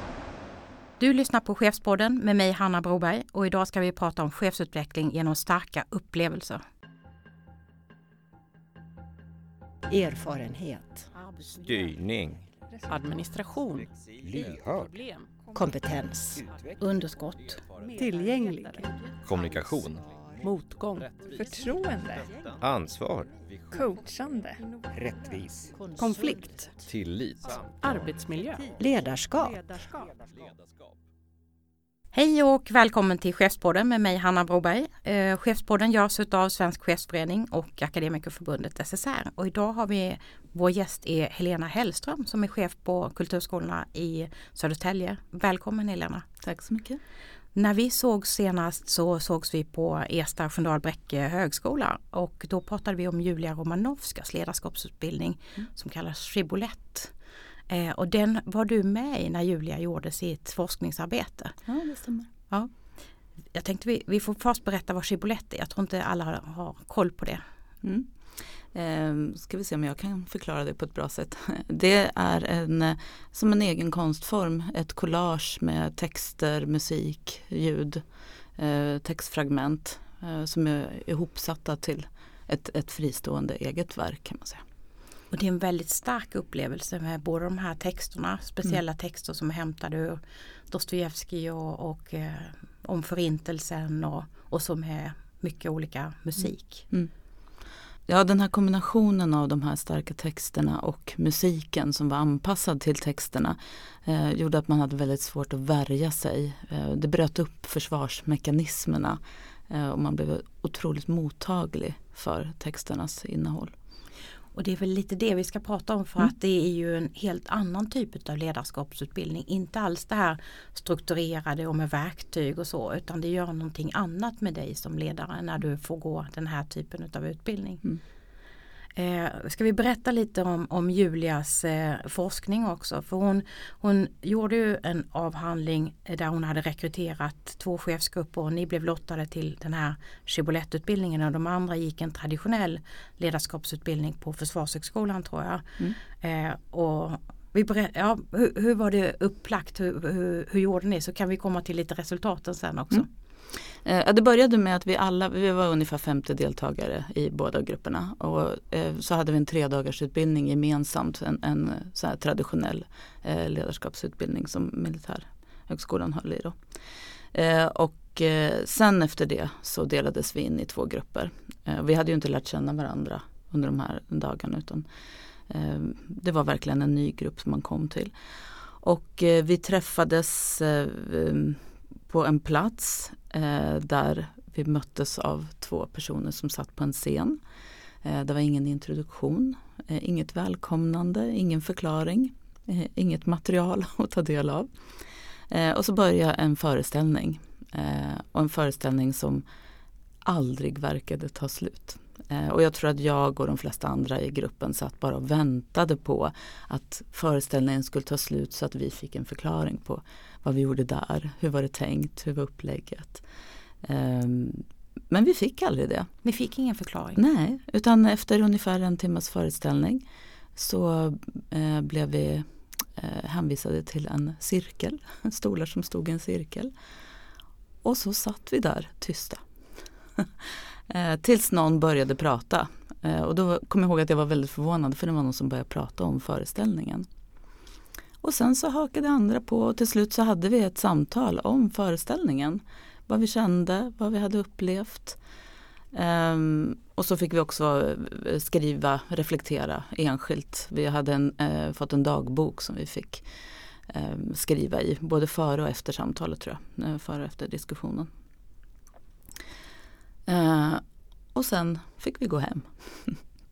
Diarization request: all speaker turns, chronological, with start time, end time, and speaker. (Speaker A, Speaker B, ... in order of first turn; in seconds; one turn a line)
Speaker A: 1.0-6.6
Speaker B: 9.9-11.1
Speaker C: 11.6-12.4
Speaker D: 12.9-15.3
Speaker C: 14.2-14.9
Speaker B: 15.5-16.5
Speaker A: 16.8-17.6
Speaker D: 17.9-18.7
Speaker E: 18.0-18.9
Speaker C: 19.2-20.1
Speaker D: 20.4-21.2
Speaker E: 21.3-22.3
Speaker C: 22.6-23.3
Speaker E: 23.7-24.7
Speaker C: 25.0-25.6
Speaker B: 26.0-26.6
Speaker D: 26.0-26.7
Speaker C: 26.8-27.9
Speaker D: 27.8-28.8
Speaker B: 28.8-29.7
Speaker A: 32.1-46.2
Speaker F: 46.4-47.0
Speaker A: 47.5-57.1
Speaker A: 57.7-61.6
Speaker F: 61.7-62.3
Speaker A: 63.5-67.4
Speaker F: 67.8-68.1
Speaker F: 68.7-78.0
Speaker F: 78.6-84.6
Speaker A: 85.3-96.9
Speaker F: 98.1-113.7
Speaker A: 114.5-127.8
Speaker A: 128.9-153.1
Speaker F: 153.8-166.6
Speaker F: 167.3-174.8
Speaker F: 175.5-178.1
Speaker F: 178.8-187.4
Speaker F: 188.0-194.7
Speaker F: 195.5-199.4
Speaker F: 200.2-213.2
Speaker F: 213.8-216.1
Speaker A: 216.2-217.2
Speaker F: 217.2-220.0
Speaker F: 220.6-226.7
Speaker F: 227.8-229.4
Speaker F: 230.2-237.1
Speaker F: 238.2-245.2
Speaker F: 245.9-253.2
Speaker F: 253.9-258.1
Speaker F: 260.3-263.2